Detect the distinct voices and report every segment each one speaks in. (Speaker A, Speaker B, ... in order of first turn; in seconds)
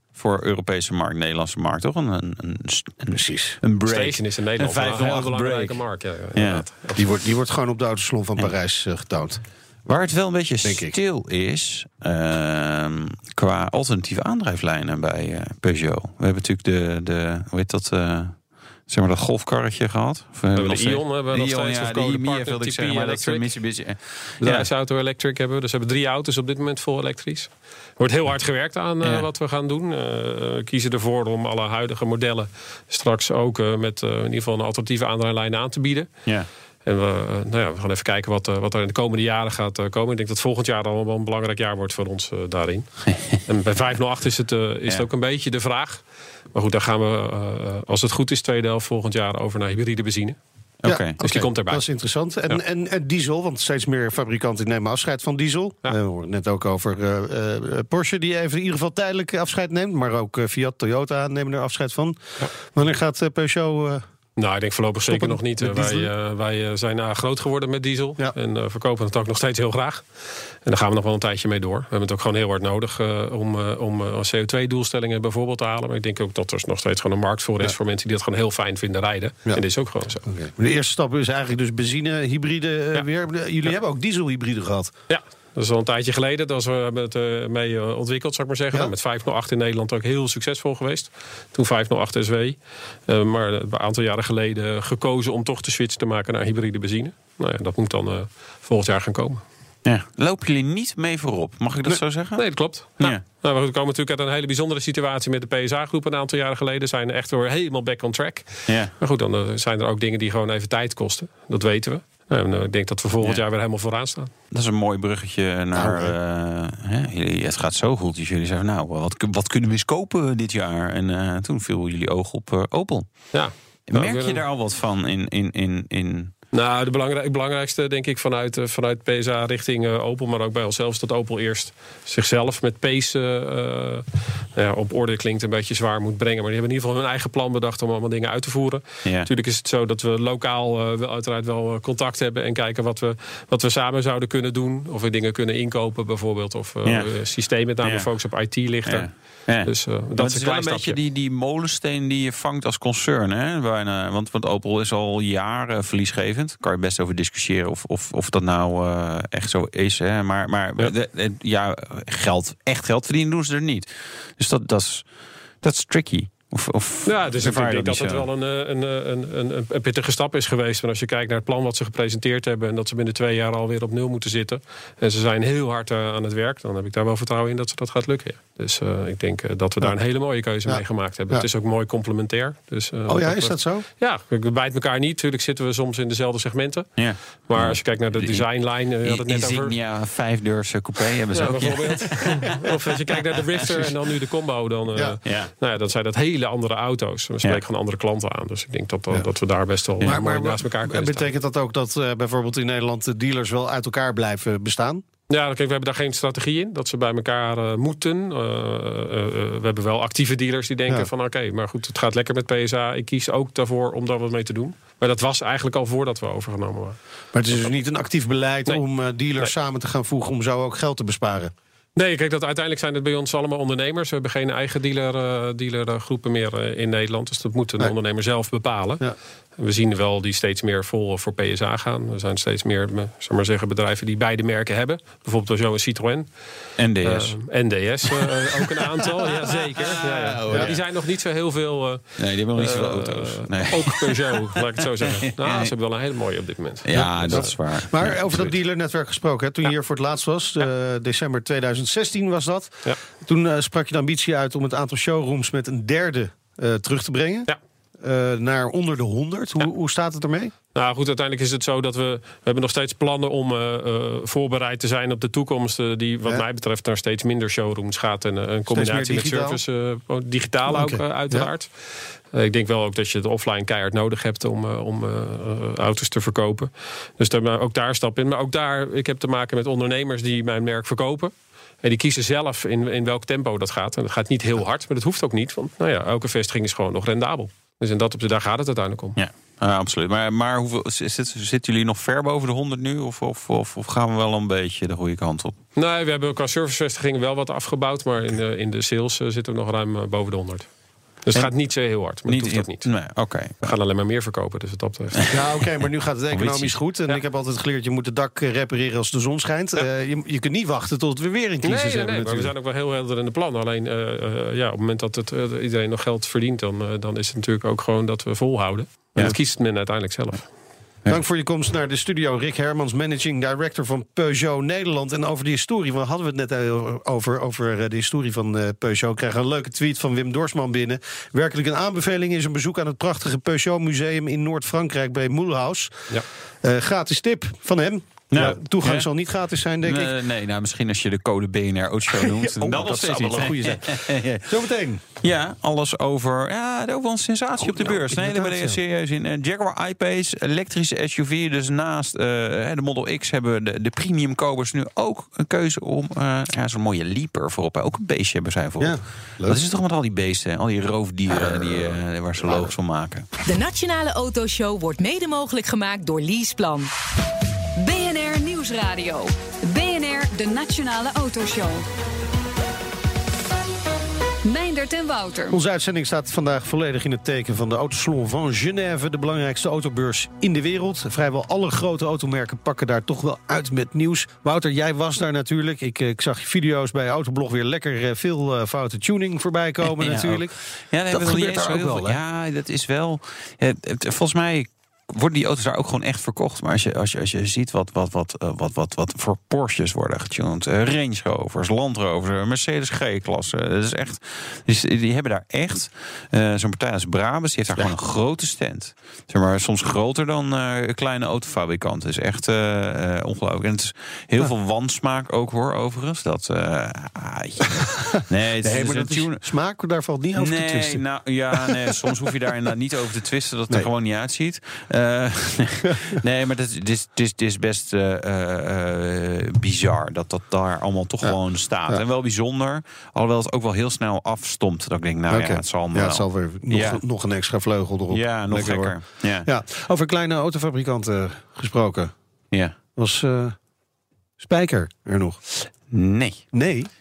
Speaker A: 0.1-5.8, 6.4-6.7, 9.9-24.7, 50.8-51.2, 99.8-103.2, 114.5-126.3, 147.8-148.1, 148.8-165.1, 165.6-168.3, 187.0-192.6, 195.2-195.5, 236.8-237.4, 239.8-240.8, 242.2-245.7, 246.8-248.6, 289.2-295.6, 302.1-303.7, 306.3-306.8, 338.3-339.1, 339.8-344.6, 345.2-363.3, 389.8-419.4, 420.4-437.0, 438.1-439.5, 445.9-446.5
Speaker B: 3.1-3.6, 7.0-9.4, 10.6-10.9, 50.9-64.0, 65.1-66.1, 80.3-84.9, 115.7-116.2, 180.6-181.5, 183.1-183.9, 200.0-205.0, 217.3-221.5, 240.5-240.7, 247.0-257.5, 258.0-260.5, 268.7-269.6, 270.7-271.5, 305.3-312.5, 321.1-340.1, 342.1-345.0, 347.6-348.8, 358.8-359.6, 361.3-362.7, 375.5-390.6, 391.1-392.2, 418.6-422.1, 431.2-432.0, 435.3-442.1, 443.0-443.6, 444.4-445.4, 446.5-446.9
Speaker C: 3.9-7.1, 20.5-23.5, 24.4-36.3, 36.9-50.4, 51.2-51.9, 64.4-70.1, 70.6-80.3, 85.1-99.4, 102.4-114.3, 123.3-124.4, 126.5-151.0, 167.1-189.8, 191.3-201.3, 205.3-217.0, 222.0-229.1, 229.6-236.3, 237.0-247.5, 260.8-271.7, 272.3-281.3, 281.8-289.2, 295.8-303.0, 303.6-305.4, 311.6-320.5
Speaker D: 363.5-366.9
Speaker E: 367.8-371.9, 374.4-375.6